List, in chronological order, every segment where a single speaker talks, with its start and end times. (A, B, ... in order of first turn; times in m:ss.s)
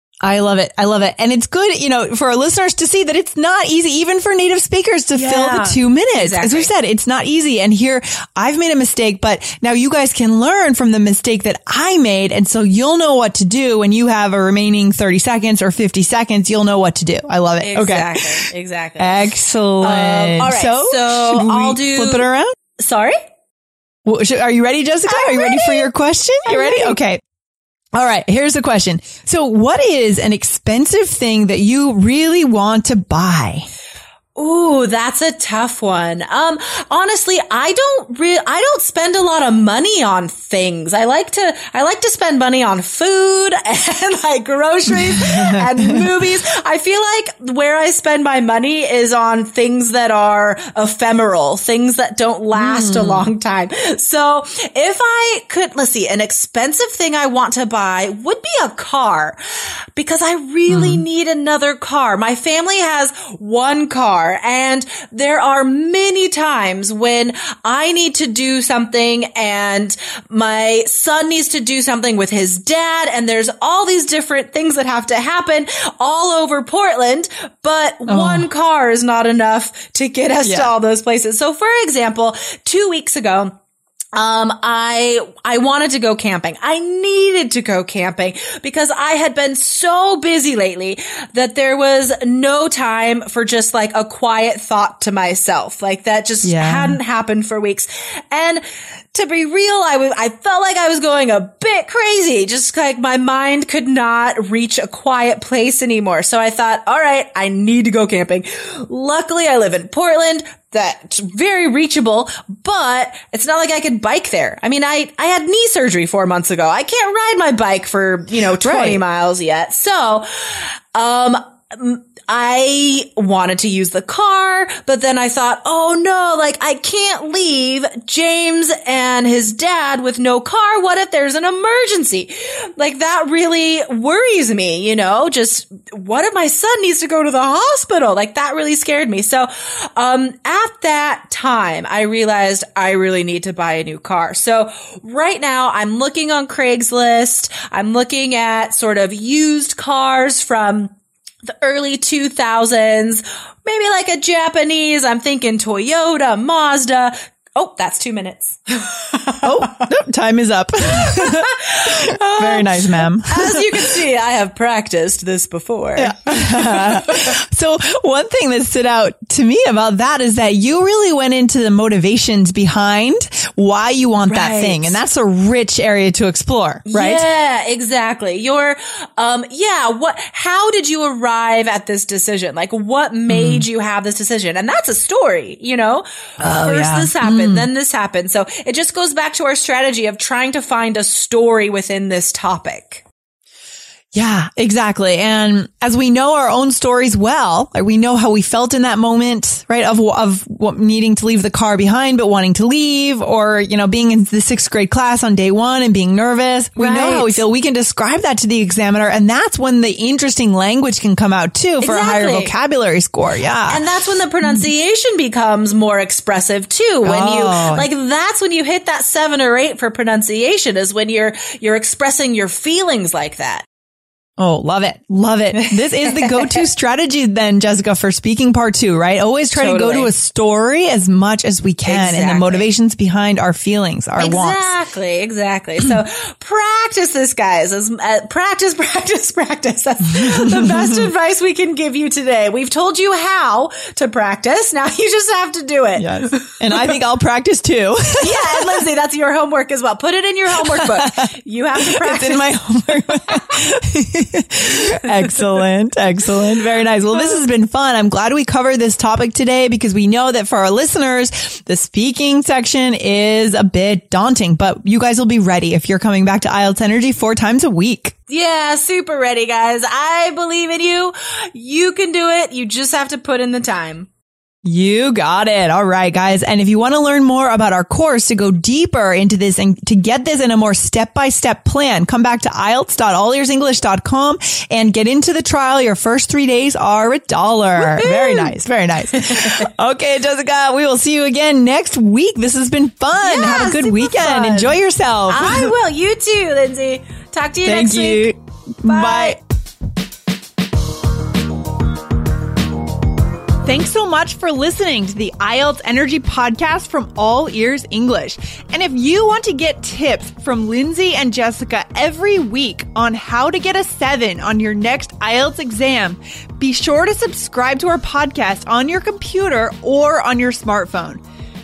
0:00.2-0:18.5 A
0:05.1-0:06.7 B
0:17.6-0:22.3 B
0:19.0-0:22.5 A
0:22.8-0:23.2 B
0:24.1-0:27.2 A
0:25.1-0:25.9 B
0:26.4-0:27.0 B
0:28.0-0:33.7 A
0:34.4-0:59.4 B
0:45.0-0:46.0 A
0:52.5-0:53.3 A
1:00.0-1:23.5 B
1:00.7-1:01.1 A
1:18.1-1:18.5 A
1:20.4-1:20.7 A
1:24.1-2:30.9 B
1:36.4-1:37.0 A
1:58.6-1:59.0 A
2:31.5-2:39.8 B
2:39.4-2:44.0 A
2:41.0-2:47.3 B
2:46.0-2:57.3 A
2:54.2-2:55.0 B
2:56.9-3:13.0 B
3:03.3-3:03.7 A
3:06.4-3:07.7 A
3:14.1-3:33.8 A
3:26.8-3:27.4 B
3:31.8-3:32.5 B
3:33.7-3:43.6 B
3:37.0-3:37.9 A
3:44.4-3:54.8 A
3:45.5-3:46.6 B
3:49.5-3:50.1 B
3:51.8-3:52.7 B
3:54.2-4:07.0 B
4:00.2-4:00.9 A
4:06.0-4:08.8 A
4:08.2-4:13.6 B
4:10.6-4:28.1 A
4:15.3-4:15.6 B
4:28.3-4:34.1 B
4:34.6-4:55.8 A
4:47.8-4:48.6 B
4:49.1-4:49.6 B
4:53.2-4:58.3 B
4:57.6-4:59.4 A
4:58.9-4:59.4 B
5:03.6-5:21.2 A